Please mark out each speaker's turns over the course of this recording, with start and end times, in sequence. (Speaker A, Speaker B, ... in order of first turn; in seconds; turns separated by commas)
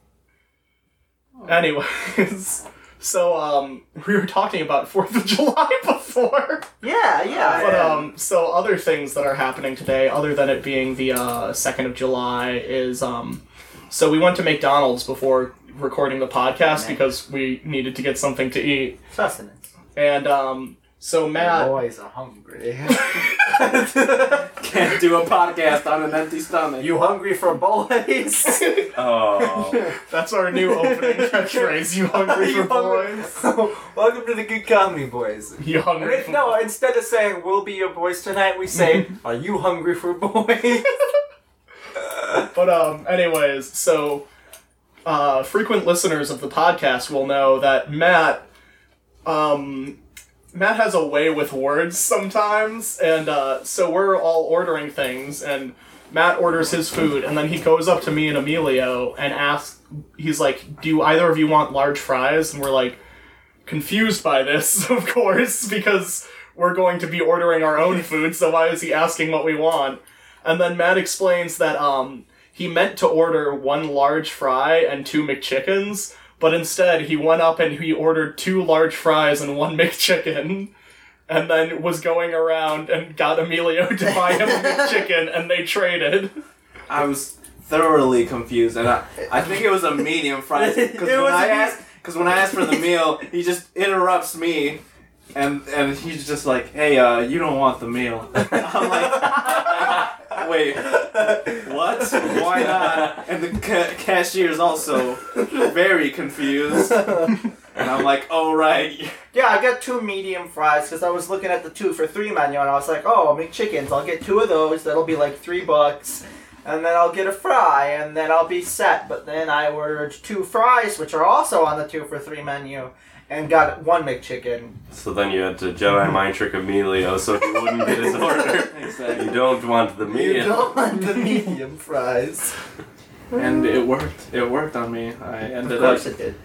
Speaker A: 1.4-6.7, Speaker B: 6.8-8.0, Speaker C: 7.3-7.9, Speaker A: 7.5-19.0, Speaker B: 16.7-17.0, Speaker B: 19.1-19.7, Speaker A: 20.0-21.7, Speaker B: 21.4-24.5, Speaker C: 24.6-26.9, Speaker B: 26.8-28.8, Speaker A: 28.6-28.9, Speaker D: 28.9-29.9, Speaker B: 29.4-29.9, Speaker A: 30.0-33.4, Speaker B: 30.5-41.0, Speaker A: 35.6-36.6, Speaker A: 42.5-44.3, Speaker A: 45.0-48.5, Speaker A: 49.2-50.0, Speaker A: 50.5-63.0, Speaker A: 63.7-80.7, Speaker A: 81.3-86.3, Speaker C: 86.9-94.8, Speaker B: 90.5-91.8, Speaker C: 95.3-109.1, Speaker B: 99.2-99.6, Speaker B: 102.2-103.2, Speaker B: 107.0-107.3, Speaker B: 109.3-124.8, Speaker D: 124.9-130.8, Speaker C: 128.7-129.3, Speaker B: 130.1-132.5, Speaker C: 133.3-136.1, Speaker B: 135.6-136.4